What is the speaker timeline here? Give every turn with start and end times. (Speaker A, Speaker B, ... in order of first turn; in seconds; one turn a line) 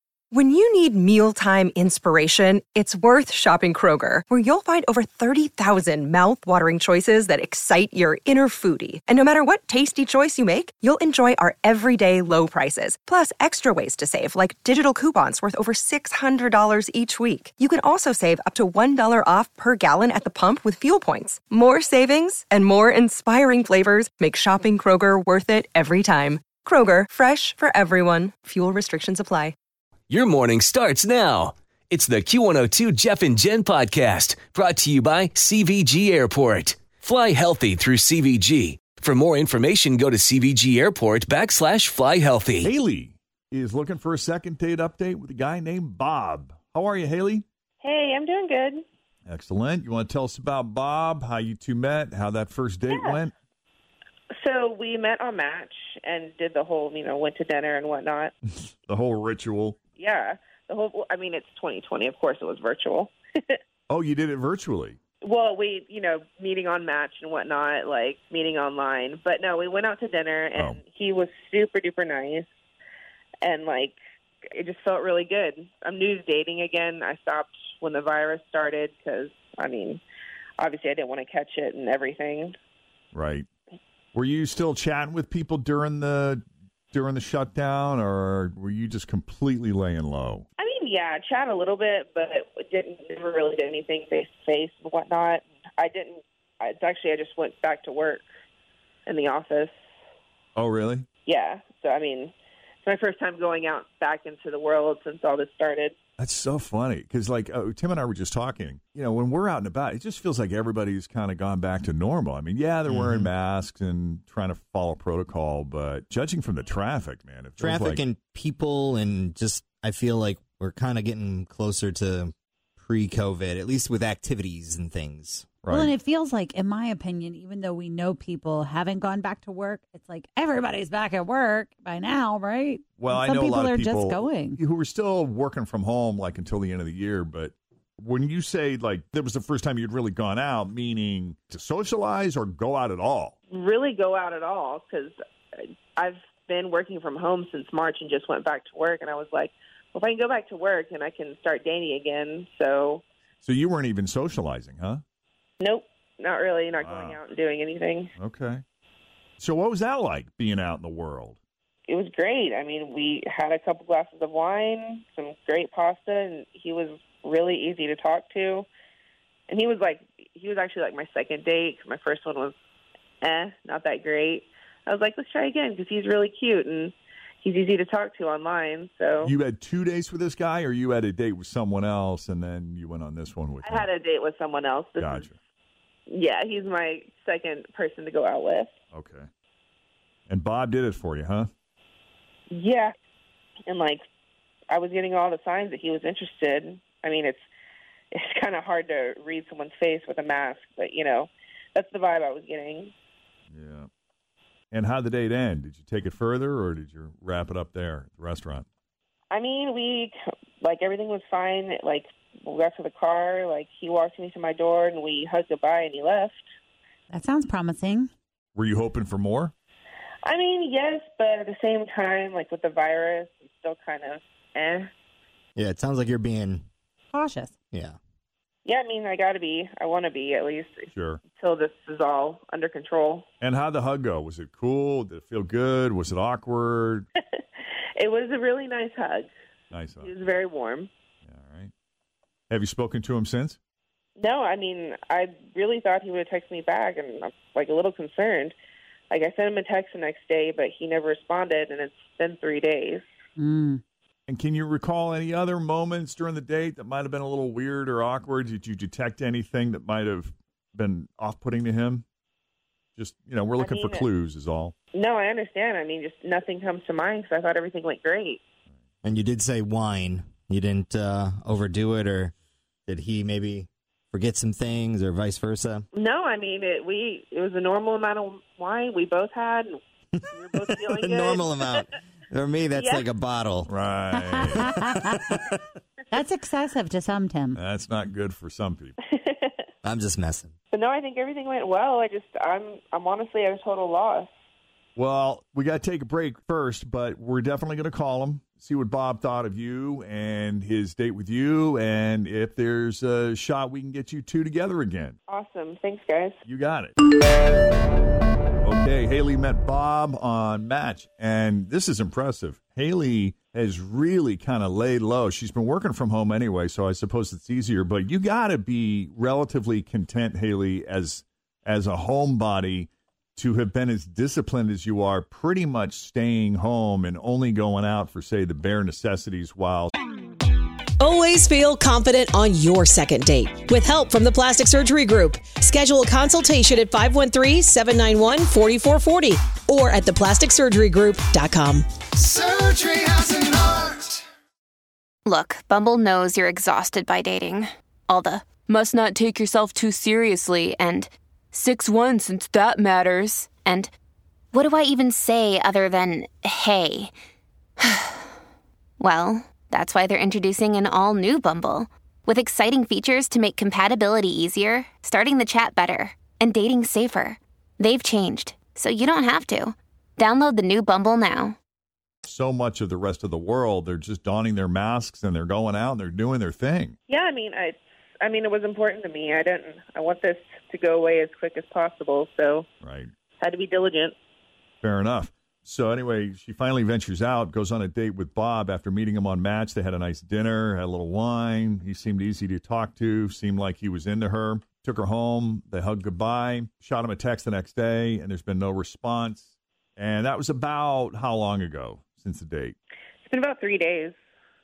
Speaker A: 0.3-29.6
Speaker B: 30.1-42.7
Speaker C: 42.6-47.4
Speaker D: 47.8-48.8
Speaker C: 49.3-53.3
Speaker D: 52.9-53.2
Speaker D: 54.4-58.3
Speaker C: 58.5-59.8
Speaker D: 60.0-63.6
Speaker C: 63.9-65.0
Speaker D: 65.2-72.5
Speaker D: 73.4-74.0
Speaker D: 74.6-80.0
Speaker D: 80.6-82.6
Speaker C: 83.1-83.5
Speaker C: 84.1-86.4
Speaker C: 86.9-90.5
Speaker D: 90.6-98.2
Speaker D: 99.1-99.7
Speaker C: 100.6-101.1
Speaker D: 101.3-102.3
Speaker D: 102.8-106.0
Speaker C: 106.2-118.0
Speaker E: 112.9-113.3
Speaker E: 117.6-125.5
Speaker C: 125.6-125.9
Speaker F: 125.7-134.6
Speaker C: 133.0-143.4
Speaker D: 143.5-145.2
Speaker D: 146.0-153.0
Speaker C: 153.4-155.0
Speaker D: 155.6-158.1
Speaker C: 156.7-157.2
Speaker C: 158.2-158.6
Speaker C: 159.4-161.4
Speaker D: 161.9-168.7
Speaker D: 169.5-172.5
Speaker D: 173.2-179.3
Speaker C: 179.2-183.9
Speaker D: 183.6-185.3
Speaker C: 185.0-185.4
Speaker D: 186.1-188.7
Speaker C: 188.9-189.3
Speaker C: 190.3-191.5
Speaker D: 192.5-192.9
Speaker D: 193.7-194.0
Speaker D: 194.7-197.5
Speaker D: 198.2-202.9
Speaker C: 203.5-203.9
Speaker C: 204.7-208.7
Speaker D: 209.3-216.5
Speaker F: 217.1-218.1
Speaker C: 218.6-219.5
Speaker D: 220.2-224.9
Speaker E: 225.6-226.7
Speaker F: 227.1-227.5
Speaker E: 227.7-228.0
Speaker D: 228.7-233.3
Speaker C: 230.9-231.2
Speaker C: 233.4-237.1
Speaker D: 238.0-239.3
Speaker C: 239.7-240.2
Speaker D: 240.0-240.9
Speaker C: 241.3-241.7
Speaker C: 242.5-243.6
Speaker D: 244.2-248.6
Speaker D: 249.1-253.1
Speaker F: 253.4-253.8
Speaker C: 254.3-262.0
Speaker C: 263.0-264.7
Speaker D: 263.6-264.1
Speaker D: 264.9-268.4
Speaker E: 269.0-272.3
Speaker E: 272.9-275.9
Speaker D: 275.9-279.8
Speaker D: 280.3-281.8
Speaker E: 280.9-283.7
Speaker D: 282.8-283.1
Speaker C: 283.7-284.6
Speaker F: 284.1-285.2
Speaker E: 284.6-285.6
Speaker F: 286.1-287.6
Speaker C: 287.6-289.0
Speaker D: 289.1-289.5
Speaker E: 289.8-290.5
Speaker D: 290.7-294.3
Speaker C: 295.0-305.2
Speaker D: 305.3-306.3
Speaker C: 306.4-306.9
Speaker C: 308.6-329.9
Speaker G: 331.0-343.9
Speaker H: 345.3-353.9
Speaker H: 354.5-357.1
Speaker H: 357.8-358.2
Speaker H: 359.0-371.6
Speaker C: 372.2-377.0
Speaker D: 377.1-382.7
Speaker C: 382.8-383.1
Speaker D: 383.4-384.1
Speaker C: 384.8-402.8
Speaker D: 403.3-404.1